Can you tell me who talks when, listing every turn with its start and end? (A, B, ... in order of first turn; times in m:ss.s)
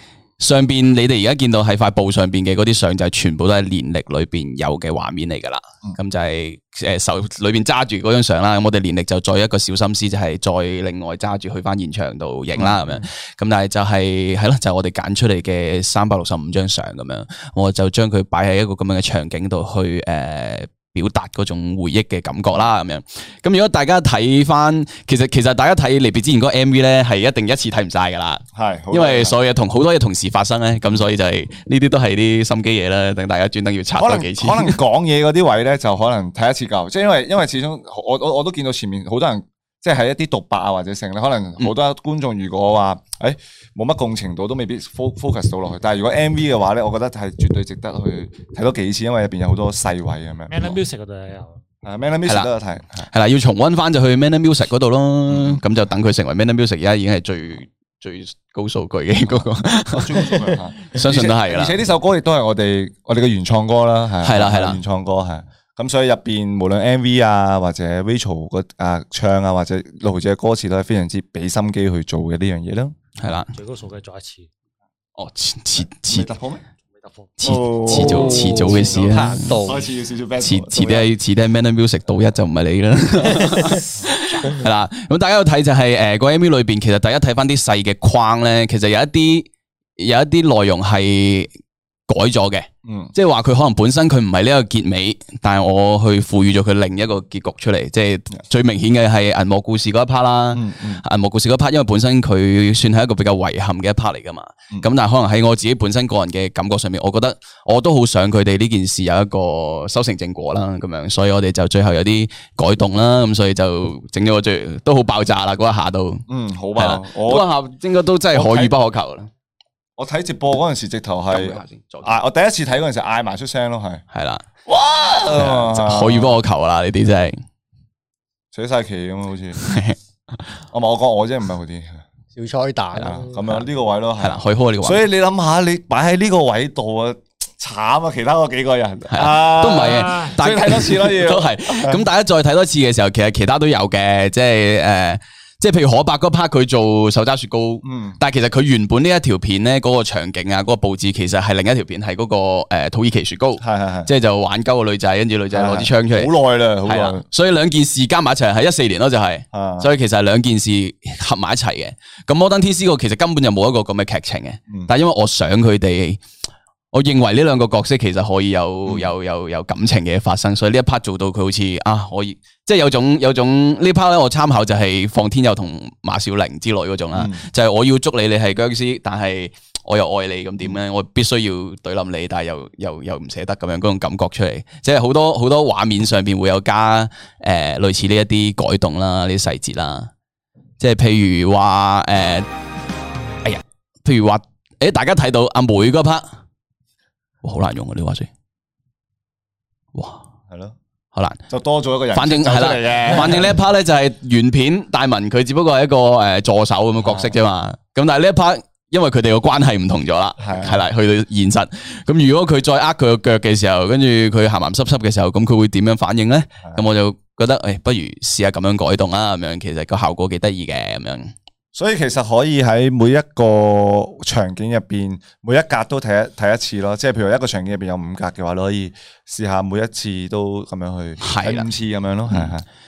0:00.4-0:34.8 A
0:12.5-0:13.0 B
0:28.5-0:29.4 B
0:34.0-0:50.8 B
0:50.5-0:51.6 C
0:51.8-0:53.1 B
0:53.1-1:01.8 A
0:55.3-0:55.6 B
0:59.3-1:13.0 B
1:04.2-1:04.8 A
1:13.2-1:13.5 A
1:13.5-1:14.5 C
1:15.2-1:16.3 A
1:16.0-1:16.6 B
1:16.9-1:17.4 C
1:17.4-1:19.6 A
1:17.4-1:21.1 B
1:18.0-1:19.8 D
1:20.4-1:31.5 A
1:32.1-1:56.2 A
1:32.8-1:33.1 B
1:40.5-1:41.0 B
1:56.3-1:57.5 B
1:56.8-1:59.3 A
1:58.3-1:58.7 B
2:00.0-2:04.0 B
2:01.3-2:02.2 A
2:04.1-2:04.5 A
2:04.7-2:06.4 B
2:05.1-2:07.4 A
2:08.5-2:09.6 B
2:09.6-2:10.0 A
2:10.7-2:12.0 B
2:12.3-2:13.6 D
2:12.9-2:22.0 B
2:14.2-2:15.0 A
2:19.1-2:36.3 A
2:19.8-2:20.4 C
2:27.8-2:28.2 B
2:33.6-2:34.1 B
2:35.5-2:37.2 B
2:36.8-2:46.2 A
2:39.5-2:39.9 B
2:46.9-3:10.1 A
2:48.8-2:49.1 B
2:57.1-2:57.5 B
3:10.8-3:12.5 A
3:13.4-3:16.3 A
3:17.4-3:18.3 A
3:19.9-3:20.2 A
3:20.5-3:20.8 B
3:21.1-3:21.4 A
3:21.5-3:23.6 B
3:22.1-3:41.3 A
3:27.0-3:27.3 B
3:30.4-3:30.8 B
3:41.7-3:52.6 B
3:51.2-3:51.7 A